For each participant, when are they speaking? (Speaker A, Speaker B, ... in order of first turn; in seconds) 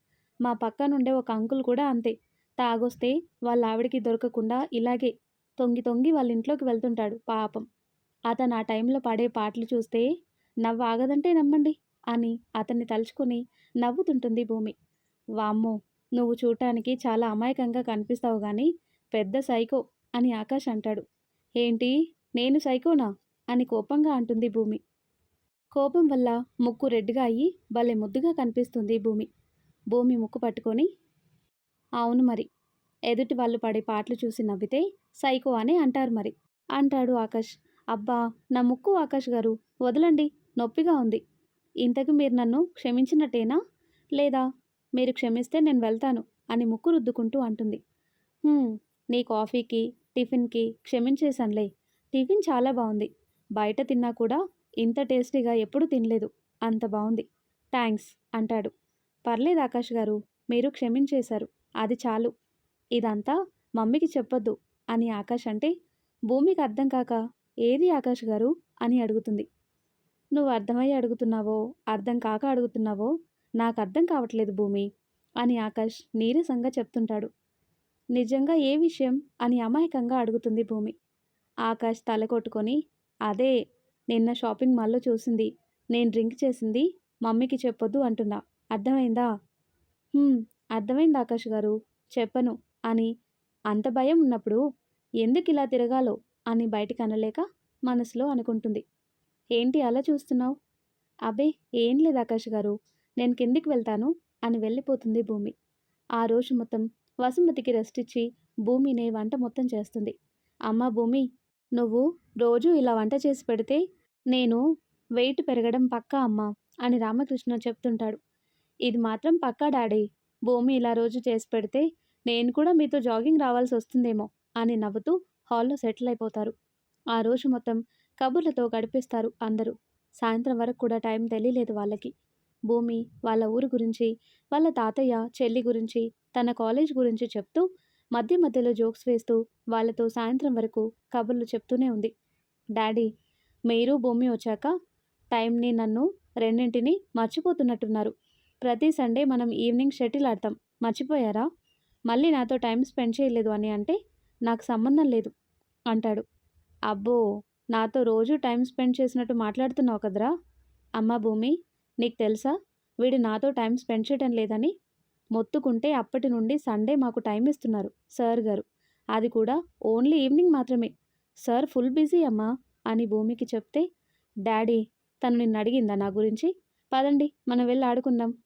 Speaker A: 0.4-7.6, 8.3-10.1, 10.6-14.7, 15.4-21.0, 21.6-24.8, 25.7-29.3, 29.9-30.9, 32.0-32.5, 33.1-41.2, 41.8-43.6, 44.1-44.4, 45.0-47.8, 48.5-58.7, 59.2-62.3, 63.0-65.7, 66.3-69.5, 70.3-74.9, 75.4-77.3, 78.1-80.9, 81.7-83.5, 84.1-89.3, 90.1-93.1, 93.7-94.6, 95.2-98.8, 99.6-100.5, 101.3-105.5, 106.2-110.1, 110.7-111.2, 111.8-114.6, 115.2-118.2, 118.8-126.5, 127.1-132.1, 132.7-142.1, 142.8-143.1, 143.7-144.7, 145.3-151.4, 152.1-155.3, 155.9-156.2, 156.9-157.2, 157.7-160.3, 161.0-164.7, 165.3-170.9, 171.4-173.8, 174.4-178.3